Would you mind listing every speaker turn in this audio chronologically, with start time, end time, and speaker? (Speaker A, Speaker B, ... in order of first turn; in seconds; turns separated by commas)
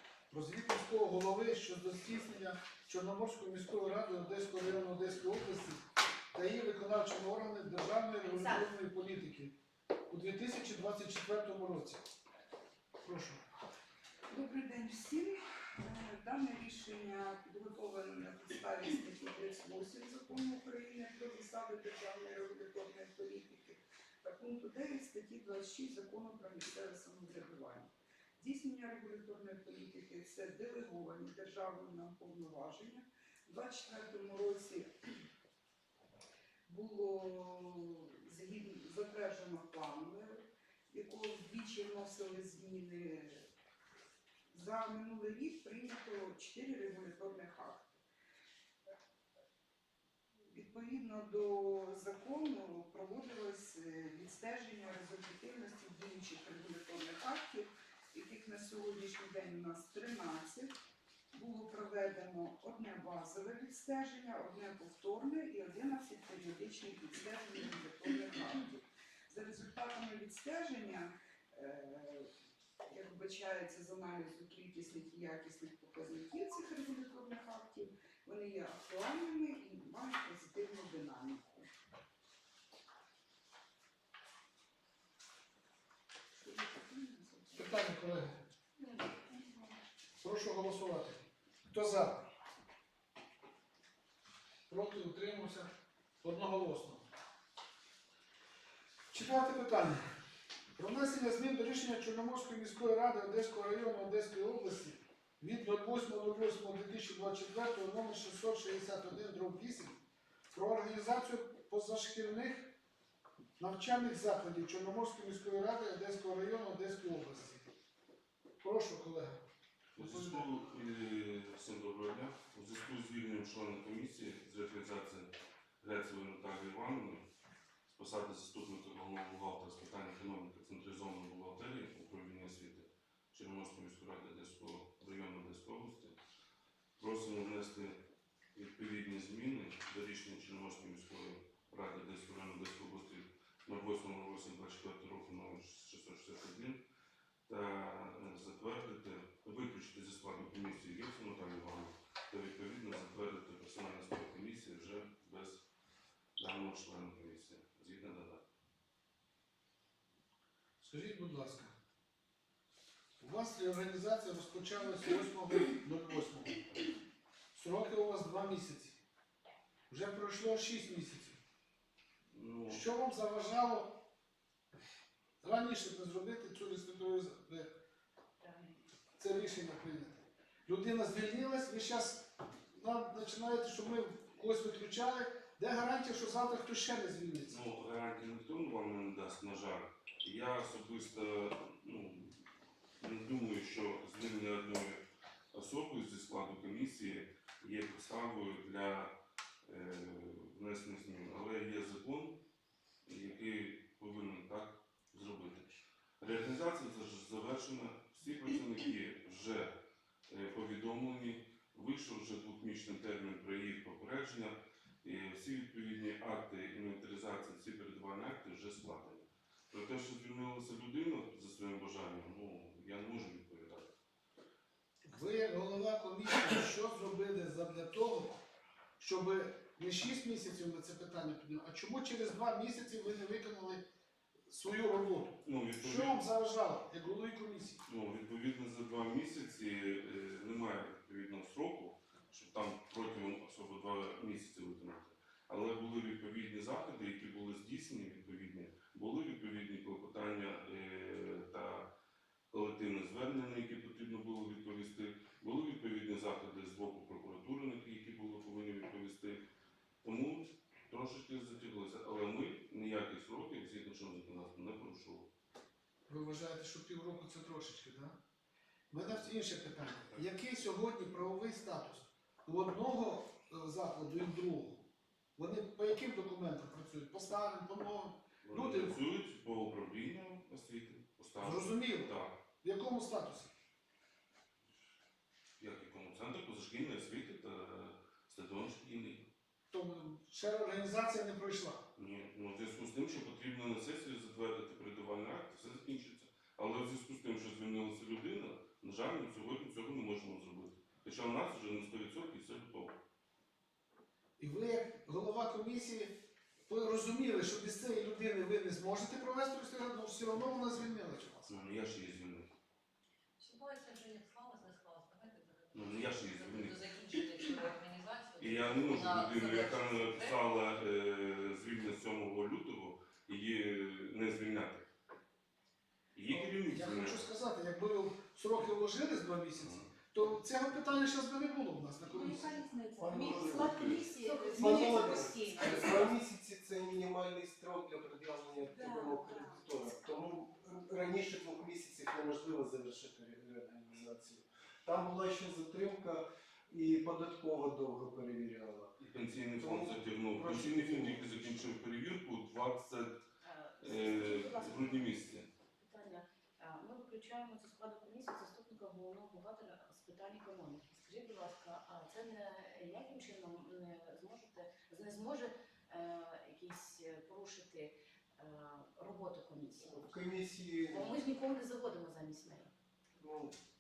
Speaker A: 0.3-9.6, Speaker B: 8.2-8.7, Speaker A: 10.1-12.0, Speaker A: 13.0-13.4, Speaker C: 14.3-34.9, Speaker C: 36.7-43.5, Speaker C: 44.5-48.0, Speaker C: 50.5-60.7, Speaker C: 61.3-72.3, Speaker C: 72.8-81.7, Speaker C: 86.3-88.0, Speaker A: 87.5-88.4, Speaker A: 90.2-92.3, Speaker A: 94.7-95.7, Speaker A: 96.2-97.1, Speaker A: 99.1-100.0, Speaker A: 100.8-112.8, Speaker A: 113.6-117.7, Speaker A: 118.6-119.4, Speaker D: 120.0-127.2, Speaker A: 120.0-120.5, Speaker D: 127.9-136.2, Speaker D: 137.0-138.0, Speaker D: 138.6-146.8, Speaker D: 147.5-155.6, Speaker D: 156.4-158.4, Speaker A: 160.8-161.7, Speaker A: 163.2-166.7, Speaker A: 167.5-169.0, Speaker A: 169.9-171.4, Speaker D: 172.3-172.8, Speaker A: 172.7-174.0, Speaker A: 175.4-177.7, Speaker B: 178.4-178.8, Speaker A: 179.2-187.6, Speaker D: 187.5-192.4, Speaker D: 193.0-195.0, Speaker D: 195.5-199.1, Speaker D: 199.7-202.4, Speaker D: 203.1-209.7, Speaker D: 210.3-223.9, Speaker A: 225.0-228.4, Speaker A: 229.0-233.8, Speaker A: 234.5-237.8, Speaker D: 235.4-236.2, Speaker D: 237.9-251.9, Speaker D: 252.5-259.4, Speaker D: 260.0-265.3, Speaker A: 266.1-268.2, Speaker A: 268.9-274.9, Speaker D: 269.0-269.3, Speaker A: 275.4-279.0, Speaker D: 278.4-282.4, Speaker A: 281.4-283.5, Speaker D: 285.6-289.3, Speaker A: 289.7-291.9, Speaker D: 291.9-303.0, Speaker A: 304.4-311.6, Speaker D: 311.5-312.5, Speaker E: 313.4-320.4, Speaker D: 315.7-317.2, Speaker D: 318.4-324.9, Speaker D: 326.1-327.3, Speaker A: 326.5-332.7, Speaker D: 329.6-329.9, Speaker E: 332.5-335.0, Speaker F: 333.0-349.0, Speaker B: 333.0-336.1, Speaker E: 338.9-339.6, Speaker D: 349.0-353.2, Speaker F: 349.6-351.7, Speaker B: 353.4-370.2, Speaker D: 353.8-355.5, Speaker F: 369.8-371.2, Speaker B: 370.9-372.7, Speaker F: 373.2-373.6